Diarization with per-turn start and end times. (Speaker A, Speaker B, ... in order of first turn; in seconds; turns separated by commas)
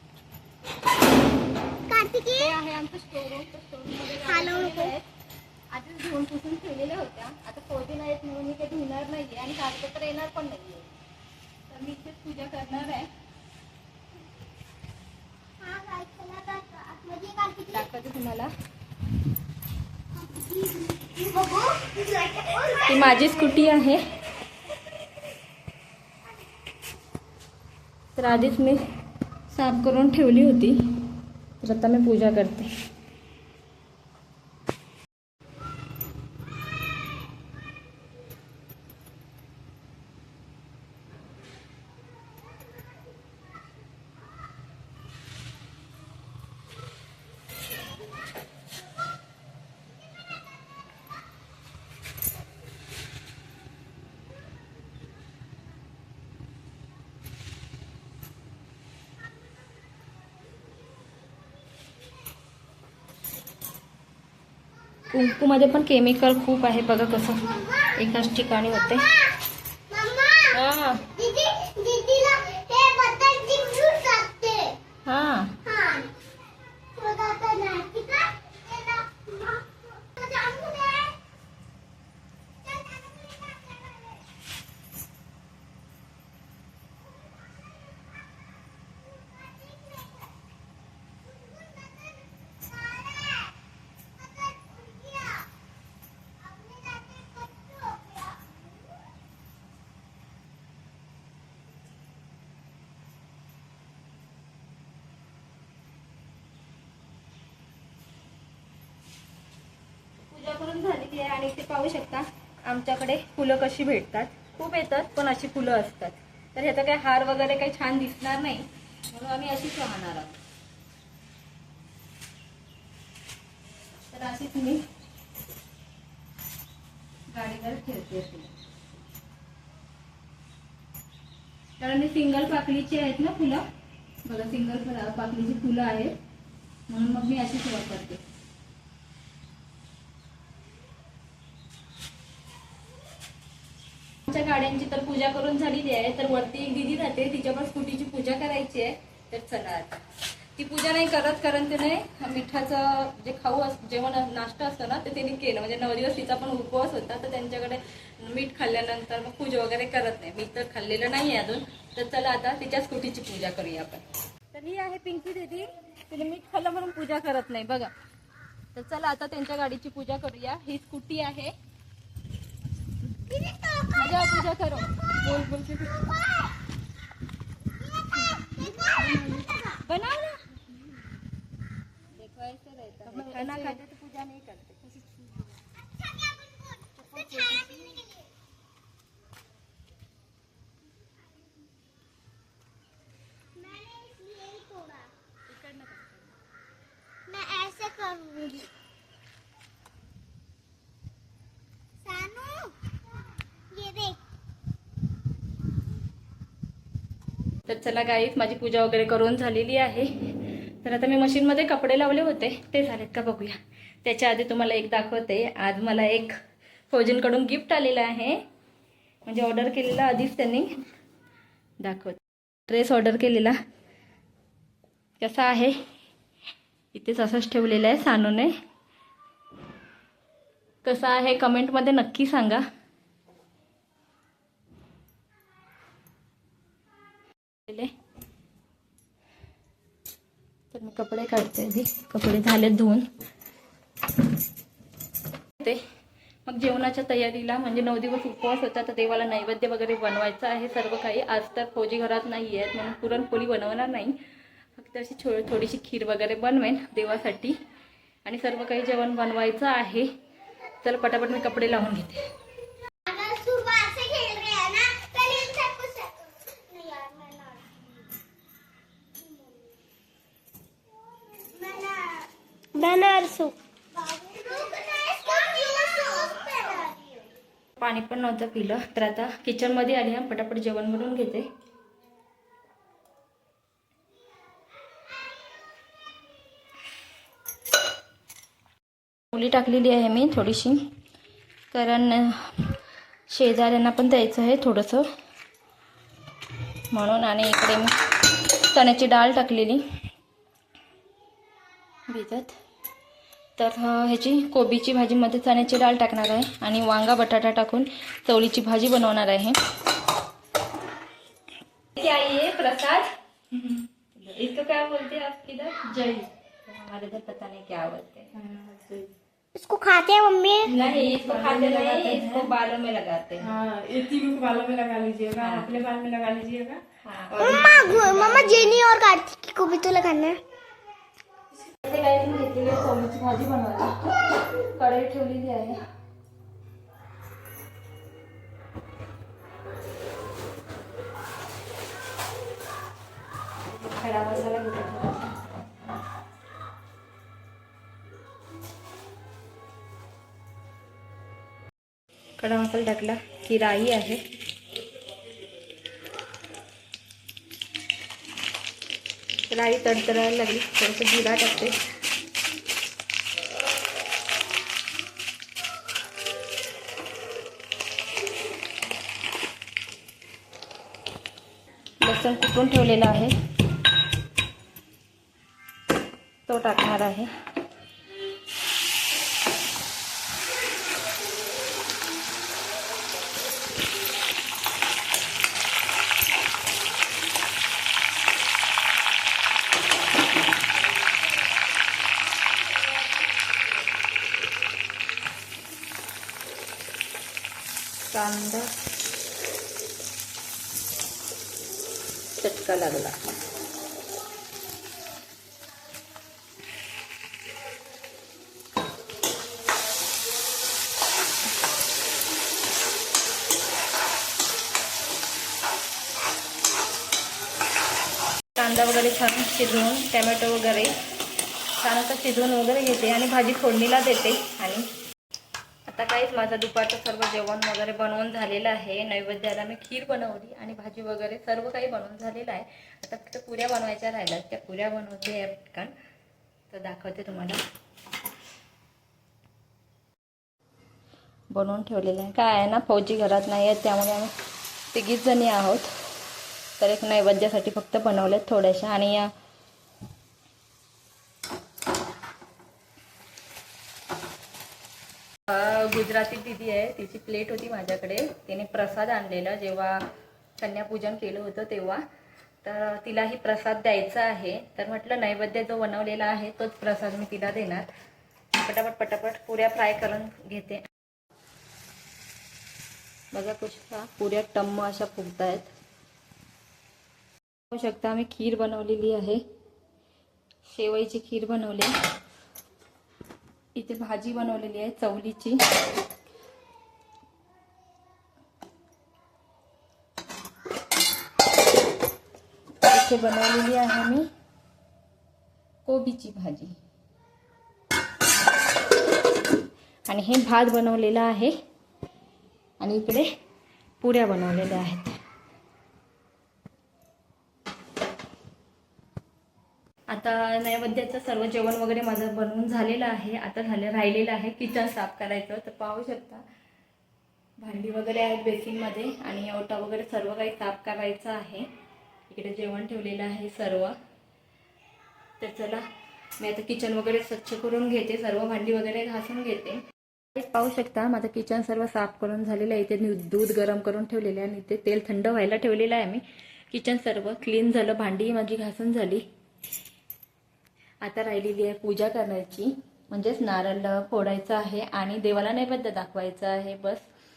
Speaker A: 1.9-2.5, Speaker B: 2.3-5.0, Speaker A: 4.2-4.9, Speaker B: 5.7-10.9, Speaker B: 11.7-13.1, Speaker A: 15.6-17.9, Speaker B: 17.7-18.5, Speaker A: 20.1-23.7, Speaker B: 22.9-24.0, Speaker B: 28.1-28.8, Speaker B: 29.5-30.9, Speaker B: 31.6-32.7, Speaker B: 65.1-69.1, Speaker A: 67.6-67.9, Speaker A: 69.9-74.8, Speaker B: 70.5-71.1, Speaker B: 75.0-75.6, Speaker A: 75.6-76.1, Speaker A: 76.9-81.2, Speaker A: 82.7-84.2, Speaker A: 89.2-90.3, Speaker A: 91.3-93.5, Speaker A: 94.2-95.5, Speaker A: 96.4-98.4, Speaker B: 110.3-120.3, Speaker B: 124.1-124.8, Speaker B: 127.3-128.5, Speaker B: 131.8-133.6, Speaker B: 134.2-136.2, Speaker B: 136.9-138.2, Speaker B: 144.3-150.0, Speaker B: 150.6-167.9, Speaker B: 168.7-171.5, Speaker A: 173.3-174.4, Speaker B: 173.9-176.1, Speaker A: 176.0-176.5, Speaker A: 178.4-179.8, Speaker B: 179.0-180.4, Speaker B: 182.2-185.2, Speaker C: 183.3-183.6, Speaker A: 186.0-188.3, Speaker B: 187.1-188.0, Speaker A: 193.5-195.1, Speaker B: 195.5-196.1, Speaker A: 197.3-198.7, Speaker A: 202.0-202.7, Speaker A: 203.7-204.2, Speaker B: 207.7-210.3, Speaker B: 210.8-216.3, Speaker B: 216.9-218.4, Speaker B: 219.2-220.8, Speaker B: 221.8-223.6, Speaker B: 225.2-225.8, Speaker B: 226.9-228.5, Speaker B: 230.8-232.6, Speaker B: 237.7-237.9, Speaker B: 240.7-243.1, Speaker B: 246.4-254.2, Speaker B: 254.8-257.6, Speaker B: 258.2-260.1, Speaker B: 260.8-262.2, Speaker A: 263.1-267.8, Speaker A: 271.1-277.3, Speaker B: 277.8-281.5, Speaker B: 289.3-290.9, Speaker B: 291.7-292.7, Speaker B: 293.3-295.1, Speaker B: 296.9-297.9, Speaker B: 298.5-299.8, Speaker B: 302.1-302.5, Speaker B: 303.6-309.6, Speaker B: 311.9-318.3, Speaker C: 316.0-316.2, Speaker C: 318.4-319.1, Speaker A: 319.5-320.8, Speaker B: 320.7-323.6, Speaker C: 320.7-322.5, Speaker C: 323.4-326.8, Speaker B: 325.4-325.7, Speaker B: 327.0-328.8, Speaker A: 327.4-330.4, Speaker B: 331.7-335.8, Speaker B: 343.7-345.4, Speaker B: 352.4-354.2, Speaker B: 359.5-361.7, Speaker B: 372.0-373.3, Speaker B: 376.5-377.3, Speaker B: 398.1-398.7, Speaker B: 402.4-403.1, Speaker B: 418.5-420.9, Speaker B: 421.8-424.9, Speaker B: 425.9-435.9, Speaker B: 436.7-437.6, Speaker B: 441.5-444.3, Speaker B: 444.9-445.9, Speaker B: 446.8-449.3, Speaker B: 455.5-460.0, Speaker B: 460.6-462.0, Speaker B: 462.6-467.9, Speaker B: 468.6-470.9, Speaker B: 473.3-475.7, Speaker B: 477.7-479.4, Speaker B: 480.6-481.9, Speaker B: 483.8-485.6, Speaker B: 492.9-494.3, Speaker B: 495.8-496.7, Speaker B: 500.1-501.5, Speaker B: 502.8-503.2, Speaker B: 504.0-505.2, Speaker B: 510.1-516.4, Speaker B: 517.6-521.6, Speaker B: 522.3-524.0, Speaker B: 525.4-525.9, Speaker B: 526.4-529.8, Speaker B: 530.3-539.2, Speaker B: 541.0-547.0